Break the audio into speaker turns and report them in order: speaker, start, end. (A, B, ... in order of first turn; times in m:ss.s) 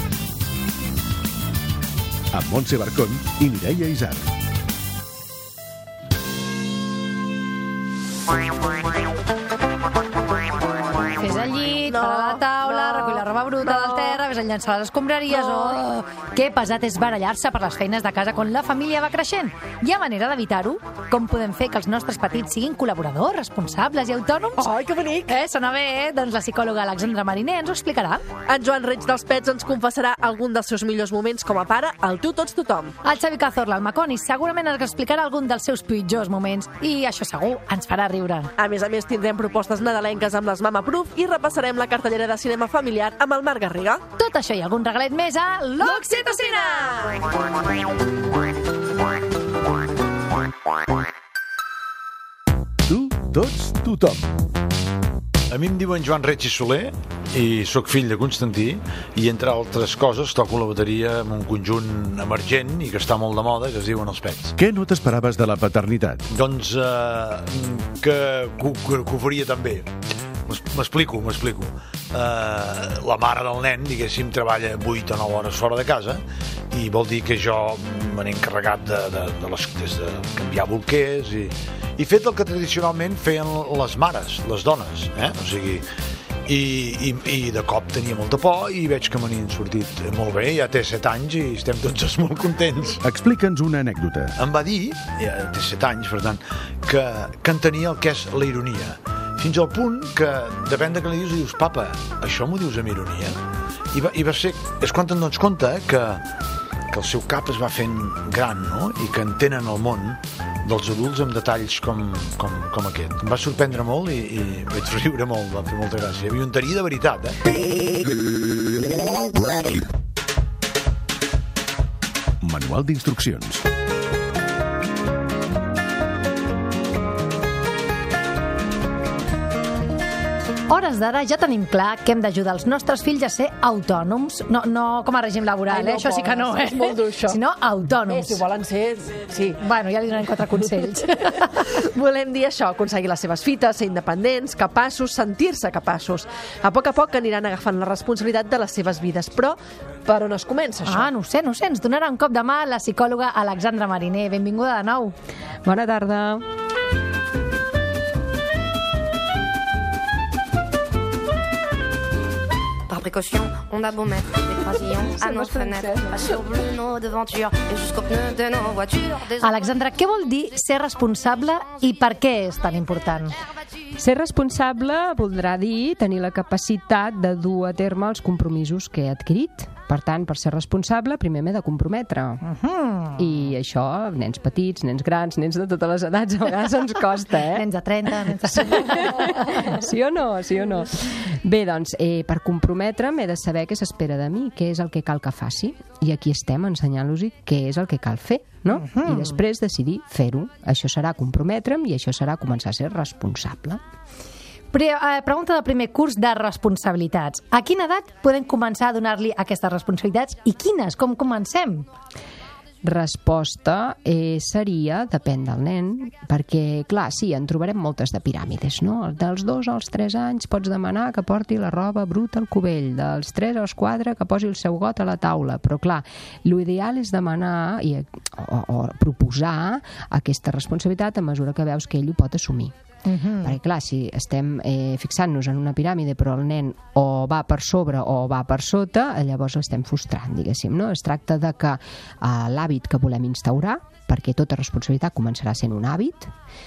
0:02.3-0:04.3 A
0:11.2-0:24.7 B
0:11.9-0:14.2 C
0:15.3-0:15.9 C
0:24.6-0:25.3 C
0:25.3-0:28.2 B
0:28.5-0:33.0 C
0:33.0-0:38.5 B
0:38.6-0:44.0 C
0:44.2-0:46.2 B
0:45.8-0:47.2 C
0:52.9-0:54.3 A
0:55.5-1:04.6 D
1:04.6-1:06.2 A
1:06.3-1:09.9 D
1:10.5-1:25.8 D
1:26.5-1:33.0 D
1:33.0-1:34.4 A
1:34.4-1:43.4 D
1:43.9-1:46.2 D
1:46.9-1:57.4 D
2:02.4-2:03.6 A
2:10.7-2:18.4 B
2:15.7-2:17.4 C
2:18.1-2:19.6 C
2:19.6-2:21.5 B
2:20.6-2:31.1 C
2:30.9-2:35.2 B
2:35.6-2:36.4 E
2:42.9-2:49.4 F
2:49.4-2:53.4 B
2:54.0-3:02.4 E
3:02.4-3:03.2 B
3:03.2-3:07.7 E
3:07.5-3:09.7 B
3:08.2-3:23.8 E
3:18.7-3:19.3 B
3:24.7-3:31.9 B
3:32.8-3:52.7 E
3:53.0-3:53.6 B
3:53.4-4:06.3 E